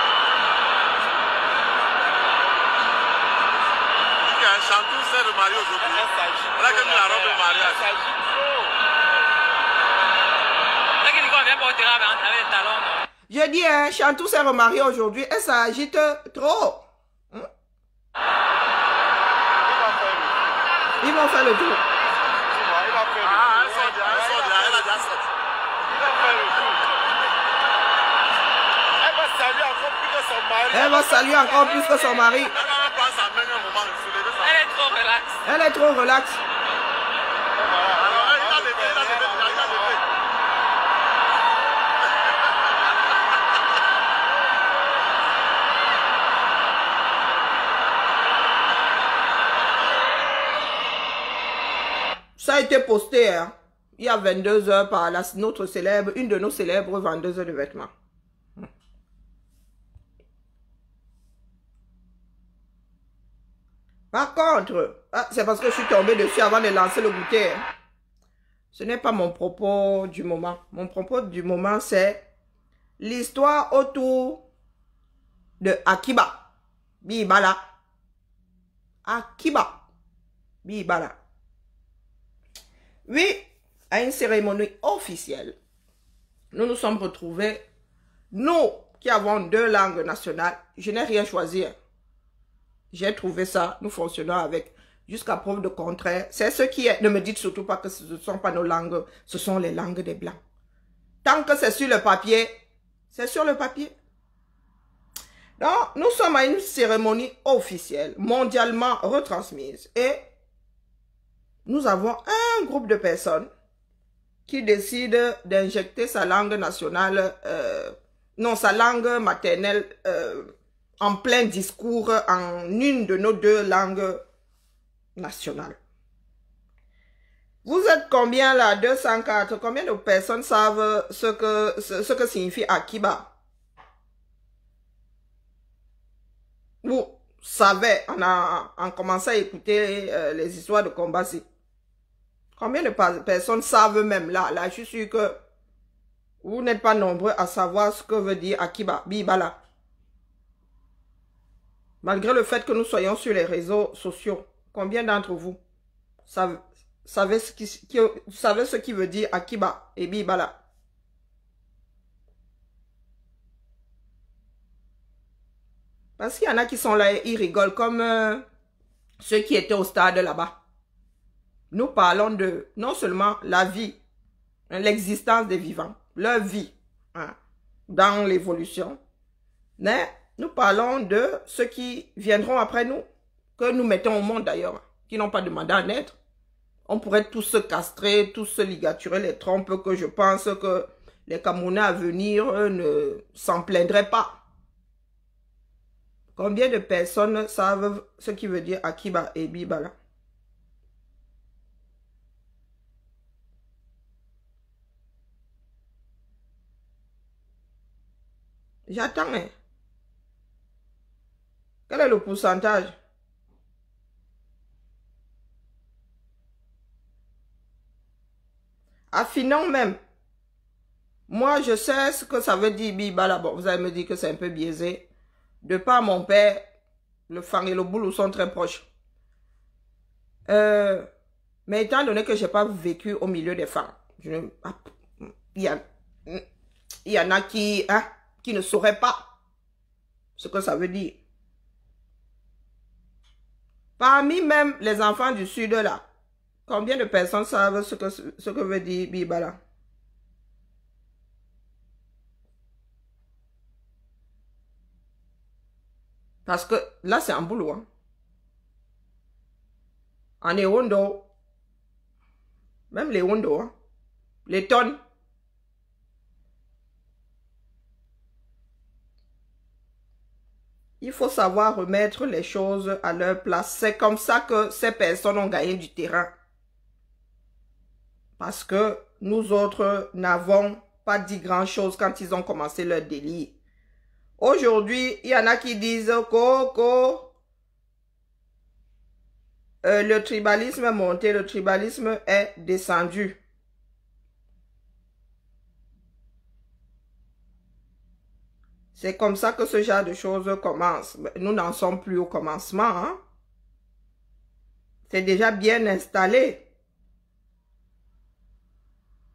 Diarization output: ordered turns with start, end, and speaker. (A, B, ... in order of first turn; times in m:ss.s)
0:04.2-0:07.9 A
0:05.8-0:08.8 B
0:11.0-0:13.0 C
0:13.3-0:17.5 D
0:19.6-0:20.6 B
0:21.0-0:21.8 D
0:22.4-0:25.1 B
0:23.2-0:25.3 A
0:25.9-0:27.0 B
0:29.0-0:31.8 B
0:30.7-0:32.5 D
0:32.4-0:34.8 A
0:34.4-0:35.4 C
0:35.4-0:36.4 D
0:37.6-0:40.0 B
0:38.0-0:40.0 A
0:52.4-0:57.9 D
1:04.1-1:07.6 D
1:08.7-1:12.2 D
1:13.0-1:14.4 D
1:15.6-1:16.4 D
1:17.0-1:17.6 D
1:19.0-1:19.8 D
1:20.6-1:21.2 D
1:23.1-1:25.6 D
1:26.5-1:27.6 D
1:28.3-1:31.8 D
1:32.9-1:40.4 D
1:41.2-1:42.6 D
1:43.1-1:43.9 D
1:45.6-1:50.2 D
1:51.6-1:53.5 D
1:54.5-2:04.2 D
2:05.2-2:05.8 D
2:07.6-2:13.3 D
2:16.8-2:21.4 D
2:22.6-2:25.4 D
2:26.4-2:29.6 D
2:32.0-2:35.6 D
2:36.3-2:40.6 D
2:46.2-2:48.4 D
2:49.2-2:50.6 D
2:51.7-2:54.0 D
2:54.7-2:57.4 D
2:57.9-2:59.0 D
2:59.8-3:03.1 D
3:03.6-3:06.2 D
3:06.9-3:14.4 D
3:16.4-3:19.9 D
3:28.9-3:29.5 D
3:31.9-3:33.0 D
3:39.1-3:40.0 D
3:41.3-3:45.1 D
3:45.6-3:46.7 D
3:47.3-3:48.8 D
3:50.5-3:51.1 D
3:51.7-3:56.4 D
3:57.1-3:59.3 D
4:00.4-4:01.2 D
4:04.0-4:06.0 D
4:06.7-4:09.6 D
4:16.5-4:17.9 D
4:20.4-4:21.3 D
4:22.9-4:23.7 D
4:24.5-4:25.0 D
4:31.0-4:36.3 D
4:38.4-4:43.6 D
4:44.4-4:47.3 D
4:49.8-4:53.4 D
4:59.0-5:03.2 D
5:05.1-5:06.6 D